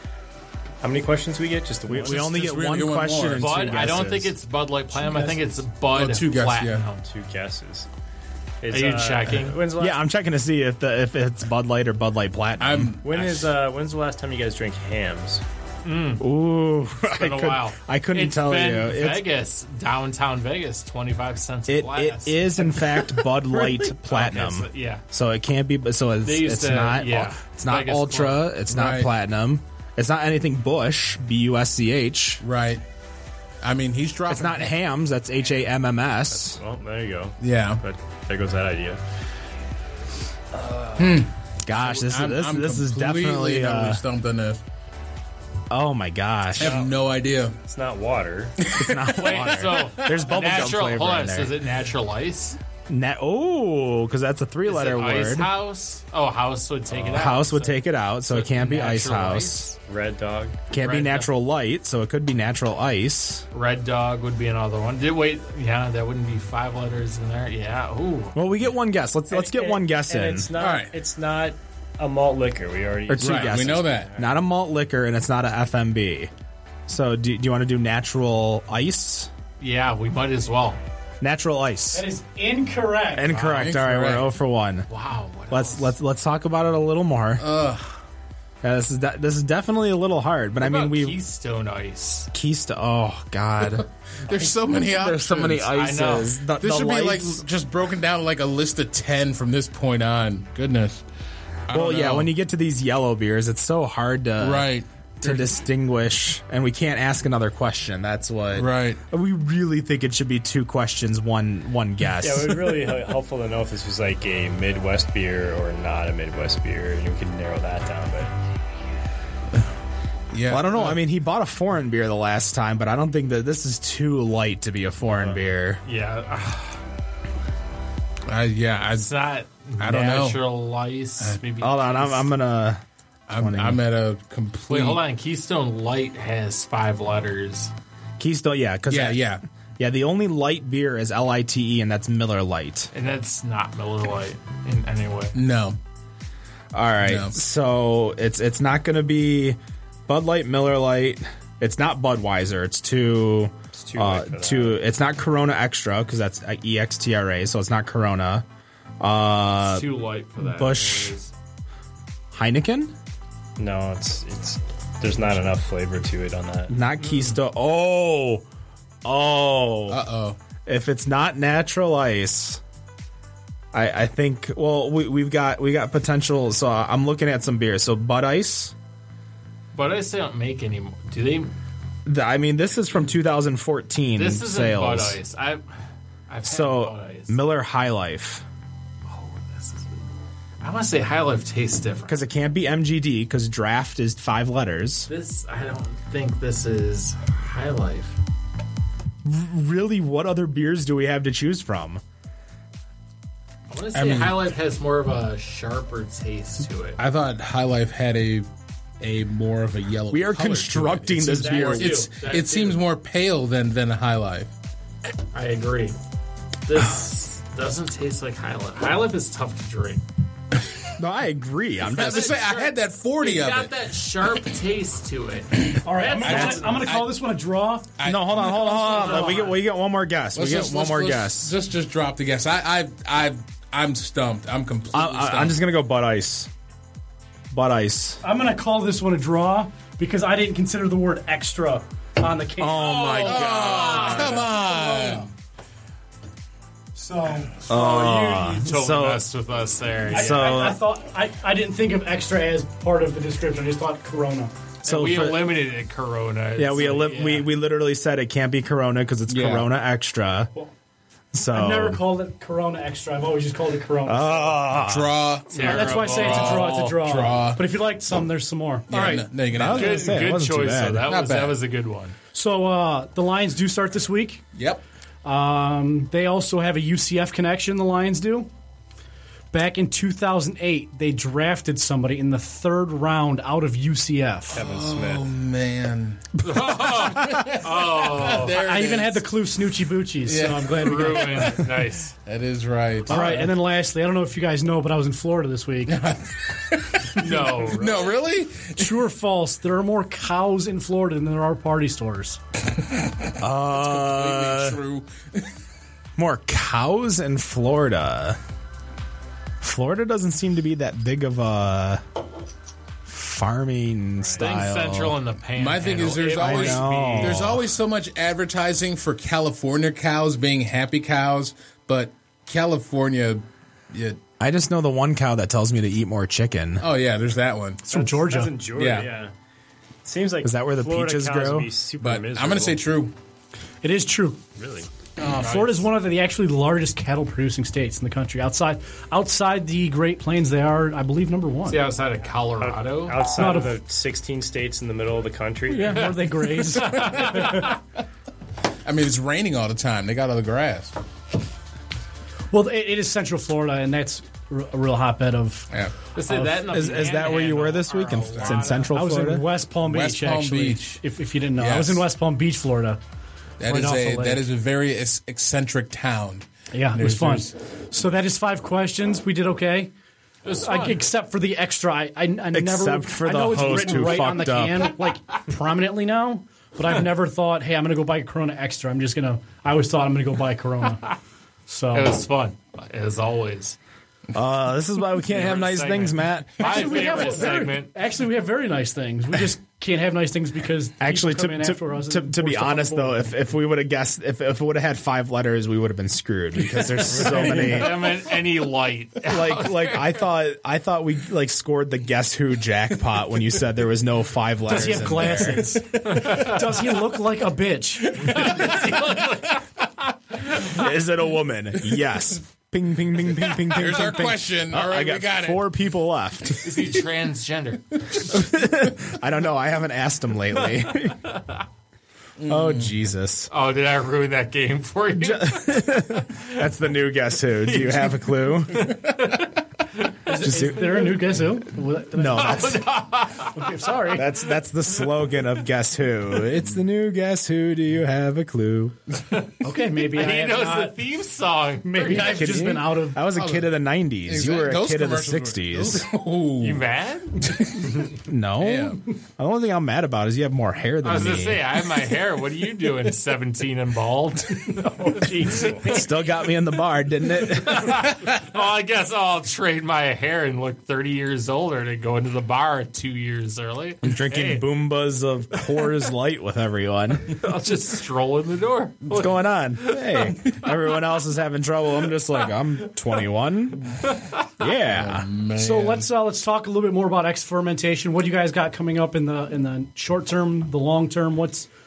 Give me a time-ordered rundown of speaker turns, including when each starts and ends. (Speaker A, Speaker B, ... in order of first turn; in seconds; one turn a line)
Speaker A: 0.8-2.4
Speaker B: 1.9-4.3
Speaker C: 2.0-3.7
Speaker D: 3.3-7.0
Speaker A: 5.0-5.3
Speaker C: 5.9-6.8
Speaker A: 7.0-7.9
Speaker A: 8.6-10.0
Speaker D: 8.7-9.6
Speaker B: 9.7-12.9
Speaker C: 12.6-13.5
Speaker A: 13.0-15.4
Speaker D: 15.8-16.2
Speaker B: 16.2-19.2
Speaker D: 17.0-22.8
Speaker B: 21.7-32.4
Speaker D: 23.6-25.0
Speaker D: 26.2-28.5
Speaker C: 28.7-29.1
Speaker C: 32.4-32.8
Speaker C: 33.6-34.7
Speaker B: 34.3-36.6
Speaker A: 36.3-39.0
Speaker C: 37.4-37.8
Speaker A: 40.5-41.2
Speaker C: 41.0-44.6
Speaker B: 41.6-44.0
Speaker B: 45.7-46.8
Speaker C: 46.5-47.6
Speaker A: 46.6-46.9
Speaker A: 47.6-48.6
Speaker C: 48.6-49.1
Speaker B: 48.7-51.5
Speaker D: 49.1-52.6
Speaker B: 52.9-55.5
Speaker D: 54.6-59.8
Speaker B: 57.0-59.7
Speaker A: 59.9-60.6
Speaker B: 60.7-63.4
Speaker D: 60.7-61.3
Speaker D: 63.5-68.4
Speaker B: 68.3-70.5
Speaker A: 69.3-74.3
Speaker C: 70.6-70.9
Speaker B: 73.1-76.3
Speaker C: 73.2-74.1
Speaker B: 76.9-79.3
Speaker D: 79.6-80.8
Speaker B: 81.2-82.0
Speaker E: 81.9-83.3
Speaker B: 83.1-84.9
Speaker D: 83.3-83.7
Speaker C: 83.5-84.3
Speaker D: 84.9-85.9
Speaker B: 85.5-87.4
Speaker C: 87.4-87.9
Speaker B: 88.6-91.2
Speaker D: 90.6-92.3
Speaker B: 92.3-93.8
Speaker C: 94.3-95.7
Speaker B: 94.7-97.4
Speaker D: 95.7-96.4
Speaker C: 96.6-101.0
Speaker C: 101.7-102.3
Speaker B: 101.7-104.7
Speaker C: 104.4-105.5
Speaker B: 105.2-112.9
Speaker C: 108.5-109.0
Speaker A: 112.2-118.3
Speaker C: 120.3-121.0
Speaker B: 120.5-125.8
Speaker D: 125.8-126.8
Speaker C: 128.3-129.1
Speaker D: 128.9-132.3
Speaker C: 129.8-130.4
Speaker B: 131.6-132.8
Speaker C: 133.3-135.0
Speaker B: 133.4-133.8
Speaker D: 134.7-137.7
Speaker B: 138.2-139.2
Speaker C: 138.9-139.4
Speaker B: 139.8-142.9
Speaker D: 142.9-145.4
Speaker C: 145.3-145.8
Speaker B: 146.7-158.4
Speaker C: 147.0-147.3
Speaker A: 153.7-154.8
Speaker B: 159.0-161.2
Speaker D: 159.7-161.3
Speaker B: 162.3-162.9
Speaker A: 163.6-166.7
Speaker B: 166.7-168.4
Speaker B: 169.0-170.0
Speaker C: 169.9-170.4
Speaker B: 170.7-172.6
Speaker B: 173.7-178.7
Speaker D: 179.7-181.5
Speaker B: 182.1-185.2
Speaker D: 184.2-185.6
Speaker D: 186.3-187.4
Speaker B: 186.4-188.4
Speaker D: 189.1-190.0
Speaker D: 190.6-192.2
Speaker B: 192.1-195.1
Speaker D: 195.1-198.2
Speaker B: 199.2-202.0
Speaker D: 203.7-207.0
Speaker C: 203.9-204.4
Speaker C: 207.0-208.5
Speaker C: 209.0-214.5
Speaker B: 210.1-212.0
Speaker D: 211.3-212.8
Speaker D: 215.3-215.9
Speaker D: 216.7-220.0
Speaker B: 221.0-222.4
Speaker C: 221.8-223.7
Speaker D: 221.9-226.9
Speaker E: 225.8-227.9
Speaker C: 226.2-227.1
Speaker B: 226.3-226.6
Speaker C: 228.0-229.2
Speaker B: 228.0-231.5
Speaker D: 228.4-229.6
Speaker C: 230.3-235.6
Speaker B: 234.9-236.5
Speaker B: 237.5-238.2
Speaker E: 238.2-242.9
Speaker B: 242.6-244.5
Speaker D: 242.8-244.5
Speaker C: 243.2-245.3
Speaker E: 244.6-245.2
Speaker E: 246.9-247.9
Speaker B: 247.7-249.2
Speaker D: 247.7-250.5
Speaker E: 250.1-254.5
Speaker B: 250.1-250.8
Speaker D: 254.8-257.5
Speaker B: 254.8-255.6
Speaker B: 256.6-260.5
Speaker C: 259.3-259.6
Speaker B: 261.3-262.0
Speaker E: 261.5-264.7
Speaker B: 264.0-265.1
Speaker C: 264.8-267.6
Speaker D: 265.5-267.1
Speaker E: 265.5-269.2
Speaker C: 268.9-270.2
Speaker B: 269.5-271.1
Speaker D: 269.6-272.1
Speaker C: 271.0-271.6
Speaker E: 272.3-274.4
Speaker C: 274.5-274.8
Speaker E: 275.2-278.5
Speaker E: 279.5-284.6
Speaker A: 284.5-285.2
Speaker C: 284.5-289.2
Speaker D: 286.4-288.8
Speaker E: 288.6-291.6
Speaker C: 290.2-291.6
Speaker D: 290.7-292.1
Speaker C: 292.2-293.4
Speaker E: 293.1-296.0
Speaker C: 295.9-299.0
Speaker D: 297.2-298.1
Speaker E: 298.7-302.4
Speaker B: 303.4-304.8
Speaker C: 303.6-305.5
Speaker B: 306.2-308.4
Speaker B: 309.6-312.0
Speaker B: 313.1-315.2
Speaker A: 314.2-314.4
Speaker D: 314.3-317.6
Speaker C: 315.5-324.2
Speaker B: 316.4-317.6
Speaker B: 324.4-326.8
Speaker C: 326.8-327.9
Speaker E: 327.9-328.6
Speaker A: 327.9-329.3
Speaker C: 328.8-329.1
Speaker A: 330.0-332.8
Speaker B: 330.4-331.7
Speaker C: 332.0-333.1
Speaker E: 333.8-334.4
Speaker A: 334.6-334.9
Speaker C: 335.2-335.8
Speaker E: 335.3-341.8
Speaker D: 341.6-343.3
Speaker A: 342.6-346.2
Speaker E: 343.3-343.8
Speaker E: 345.7-347.6
Speaker D: 346.1-347.7
Speaker C: 347.0-347.7
Speaker C: 348.8-350.9
Speaker E: 352.5-355.7
Speaker D: 356.1-359.0
Speaker E: 356.3-356.6
Speaker B: 356.7-359.5
Speaker E: 358.9-363.0
Speaker C: 359.8-361.0
Speaker C: 361.6-362.0
Speaker C: 363.6-367.5
Speaker E: 363.6-364.4
Speaker E: 366.7-369.9
Speaker D: 370.4-371.1
Speaker E: 370.6-381.0
Speaker B: 372.5-374.9
Speaker E: 381.7-382.2
Speaker D: 381.9-383.8
Speaker B: 384.3-387.2
Speaker D: 385.2-387.9
Speaker E: 386.6-393.3
Speaker B: 391.0-398.2
Speaker D: 397.1-400.2
Speaker B: 399.2-405.8
Speaker E: 404.6-408.5
Speaker D: 406.2-406.5
Speaker D: 408.2-409.7
Speaker B: 410.6-416.9
Speaker C: 413.6-415.7
Speaker D: 416.6-417.9
Speaker B: 418.2-421.2
Speaker C: 422.4-422.9
Speaker B: 422.4-423.5
Speaker D: 423.5-426.2
Speaker B: 425.2-429.1
Speaker D: 427.6-430.3
Speaker E: 430.3-432.8
Speaker B: 430.4-431.4
Speaker B: 432.1-432.8
Speaker D: 432.3-433.7
Speaker E: 433.5-434.3
Speaker B: 434.1-439.0
Speaker D: 439.3-442.8
Speaker E: 439.6-441.0
Speaker E: 441.8-443.2
Speaker B: 442.1-446.1
Speaker C: 443.3-443.7
Speaker C: 444.2-446.8
Speaker D: 446.6-447.5
Speaker C: 447.4-448.1
Speaker B: 448.1-451.7
Speaker C: 448.6-449.0
Speaker D: 451.0-456.1
Speaker A: 455.5-455.8
Speaker B: 455.8-458.0
Speaker D: 457.4-464.7
Speaker B: 464.0-467.4
Speaker D: 467.3-470.2
Speaker B: 469.1-474.0
Speaker B: 474.6-475.3
Speaker C: 474.9-476.1
Speaker E: 475.5-481.7